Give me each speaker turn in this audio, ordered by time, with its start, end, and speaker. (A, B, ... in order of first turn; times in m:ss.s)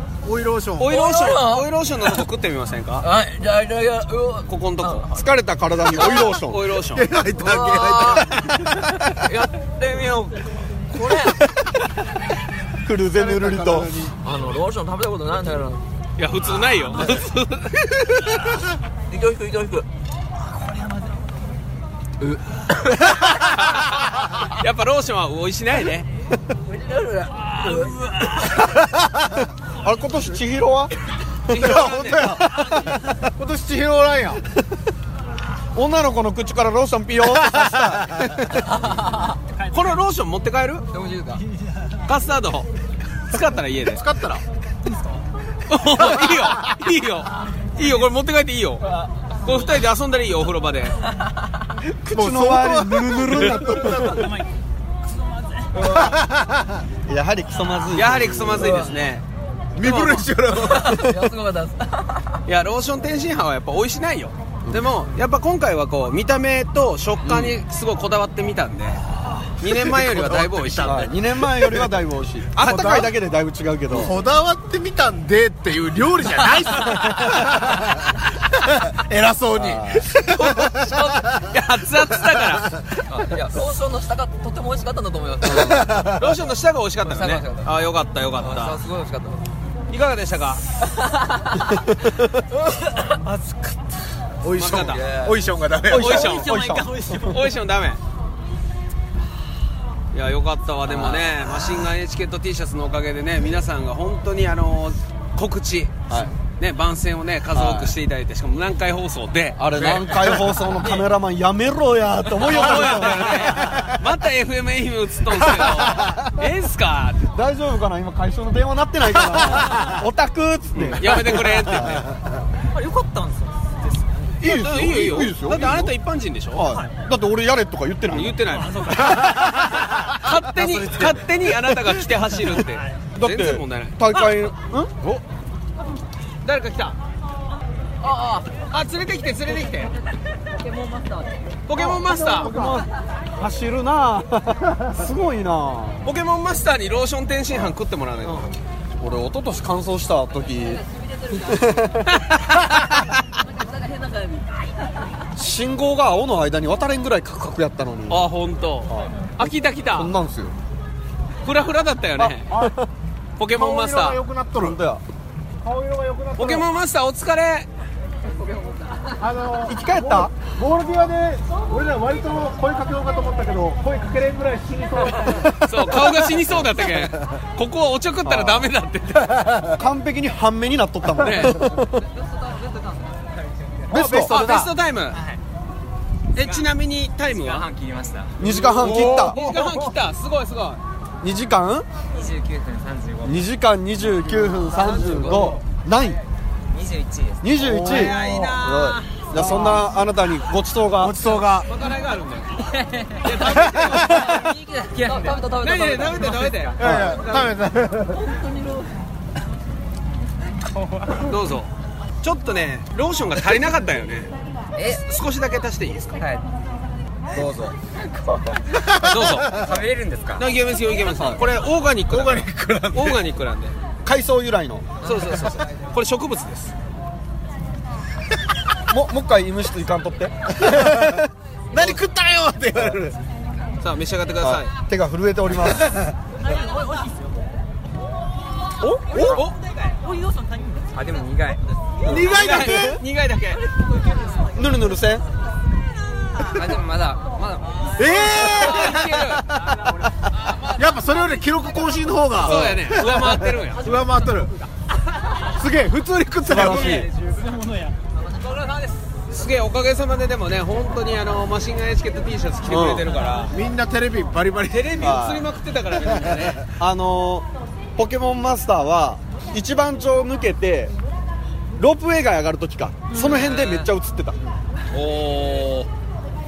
0:00.2-0:00.9 A
0:00.8-0:03.0 B
0:00.8-0:01.7 C
0:03.0-0:05.2 C
0:04.4-0:05.1 B
0:05.1-0:06.6 D
0:05.9-0:07.1 B
0:06.9-0:09.2 A
0:07.4-0:08.4 C
0:09.1-0:11.5 C
0:12.8-0:13.9 D
0:13.2-0:14.1 A
0:14.2-0:15.8 C
0:16.2-0:17.9 B
0:19.1-0:19.8 C
0:20.4-0:21.2 E
0:22.2-0:23.3 C
0:23.4-0:26.1 B
0:26.6-0:28.6 C
0:27.6-0:28.3 E
0:28.9-0:29.2 A
0:29.8-0:30.9 D
0:31.5-0:32.3 B
0:31.5-0:32.6 D
0:31.5-0:34.4 A
0:32.6-0:33.0 E
0:35.7-0:38.6 D
0:37.2-0:38.3 A
0:38.7-0:39.4 C
0:39.5-0:40.0 E
0:39.7-0:40.8 B
0:40.9-0:41.4 C
0:41.5-0:42.0 E
0:42.0-0:42.7 B
0:43.2-0:44.0 B
0:43.8-0:44.4 A
0:44.8-0:45.2 E
0:45.7-0:48.8 B
0:49.4-0:51.0 B
0:51.9-0:54.2 D
0:52.1-0:54.3 A
0:53.7-0:55.9 E
0:55.7-0:56.2 D
0:55.8-0:56.8 A
0:57.0-0:59.0 D
0:57.9-0:59.2 B
0:58.6-0:58.8 C
0:59.7-1:01.2 A
0:59.8-1:00.3 B
1:00.5-1:02.4 C
1:02.4-1:09.0 B
1:07.2-1:07.6 D
1:09.6-1:11.1 B
1:09.6-1:11.9 A
1:10.8-1:14.1 D
1:12.6-1:13.1 B
1:12.6-1:13.1 A
1:13.9-1:21.4 A
1:19.5-1:20.1 D
1:20.3-1:22.7 B
1:22.1-1:22.8 A
1:23.1-1:26.2 C
1:25.4-1:25.8 D
1:25.5-1:26.2 A
1:26.1-1:28.8 B
1:27.0-1:27.7 C
1:28.3-1:29.4 C
1:29.9-1:30.6 B
1:30.8-1:31.8 C
1:33.0-1:33.9 E
1:34.4-1:36.2 A
1:34.6-1:35.0 B
1:34.8-1:35.4 C
1:35.8-1:37.3 D
1:35.9-1:36.5 B
1:36.0-1:37.5 E
1:37.2-1:38.0 B
1:40.1-1:50.3 B
1:40.8-1:41.3 D
1:46.1-1:46.3 D
1:47.5-1:47.9 D
1:49.6-1:53.7 D
1:52.4-1:57.3 B
1:57.3-2:02.0 D
2:00.8-2:02.1 B
2:02.7-2:04.6 E
2:04.4-2:05.9 D
2:04.4-2:06.7 B
2:06.5-2:08.5 D
2:06.7-2:07.0 E
2:08.1-2:09.2 B
2:08.4-2:09.7 E
2:09.1-2:09.8 A
2:09.9-2:14.3 B
2:10.8-2:11.1 D
2:12.5-2:13.0 E
2:13.1-2:14.9 D
2:16.4-2:17.0 B
2:18.0-2:18.5 C
2:18.7-2:19.9 B
2:20.6-2:21.4 C
2:21.6-2:22.5 B
2:21.8-2:26.0 D
2:21.8-2:22.8 A
2:26.0-2:28.5 B
2:29.0-2:32.1 D
2:32.2-2:32.8 B
2:33.6-2:34.6 C
2:35.3-2:38.3 D
2:38.1-2:40.1 B
2:38.9-2:40.6 D
2:41.4-2:42.5 B
2:42.2-2:42.9 D
2:43.4-2:44.2 B
2:43.5-2:44.8 A
2:44.6-2:45.0 D
2:45.6-2:46.7 A
2:46.4-2:47.7 B
2:48.4-2:49.2 C
2:49.2-2:56.1 A
2:49.6-2:50.3 D
2:55.6-2:59.6 B
2:58.2-2:58.7 D
2:59.4-2:59.7 A
2:59.8-3:02.0 D
3:01.2-3:01.6 B
3:01.8-3:03.9 C
3:03.9-3:04.7 A
3:03.9-3:04.3 D
3:03.9-3:05.2 B
3:05.1-3:05.4 C
3:06.3-3:07.7 B
3:06.4-3:06.7 C
3:07.3-3:08.4 C
3:08.4-3:09.4 D
3:08.4-3:10.8 B
3:08.8-3:09.6 A
3:11.2-3:11.9 D
3:12.0-3:13.4 C
3:13.2-3:16.2 D
3:14.4-3:15.6 C
3:16.7-3:18.1 C
3:17.4-3:21.2 D
3:17.6-3:18.6 A
3:17.8-3:19.7 B
3:19.4-3:19.8 A
3:21.0-3:21.7 A
3:21.6-3:24.3 B
3:22.6-3:26.8 C
3:23.4-3:24.5 A
3:25.2-3:27.4 B
3:26.8-3:28.3 A
3:26.8-3:27.2 D
3:28.1-3:28.9 C
3:31.2-3:31.7 B
3:32.2-3:34.3 B
3:34.7-3:35.0 C
3:34.9-3:36.2 B
3:36.2-3:36.5 C
3:37.3-3:37.8 D
3:38.7-3:39.7 A
3:39.0-3:39.5 B
3:39.4-3:40.4 C
3:40.4-3:43.7 B
3:41.0-3:41.4 D
3:42.1-3:43.2 A
3:44.0-3:44.9 D
3:45.0-3:45.6 C
3:45.0-3:46.7 B
3:48.9-3:51.2 D
3:50.6-3:53.2 A
3:53.8-3:54.7 B
3:54.4-3:55.9 D
3:55.8-3:56.1 A
3:56.4-3:57.5 E
3:58.8-3:59.4 D
3:59.1-4:01.3 E
3:59.2-3:59.6 B
4:00.9-4:01.6 C
4:02.0-4:03.6 B
4:02.0-4:03.0 A
4:02.1-4:02.9 D
4:03.6-4:04.5 E
4:04.5-4:05.2 D
4:06.4-4:08.5 C
4:08.0-4:09.9 A
4:08.3-4:09.5 B
4:10.4-4:10.8 C
4:10.7-4:14.5 A
4:12.4-4:13.1 D
4:12.4-4:13.8 B
4:15.5-4:17.1 A
4:16.4-4:17.1 D
4:16.5-4:18.0 E
4:18.2-4:19.0 C
4:19.3-4:23.5 B
4:22.7-4:23.0 D
4:23.5-4:25.2 A
4:24.7-4:26.6 B
4:25.0-4:25.5 D
4:26.0-4:26.6 A
4:26.8-4:30.9 D
4:31.8-4:34.5 D
4:33.1-4:33.5 E
4:33.2-4:33.8 C
4:33.4-4:33.6 B
4:34.9-4:35.9 B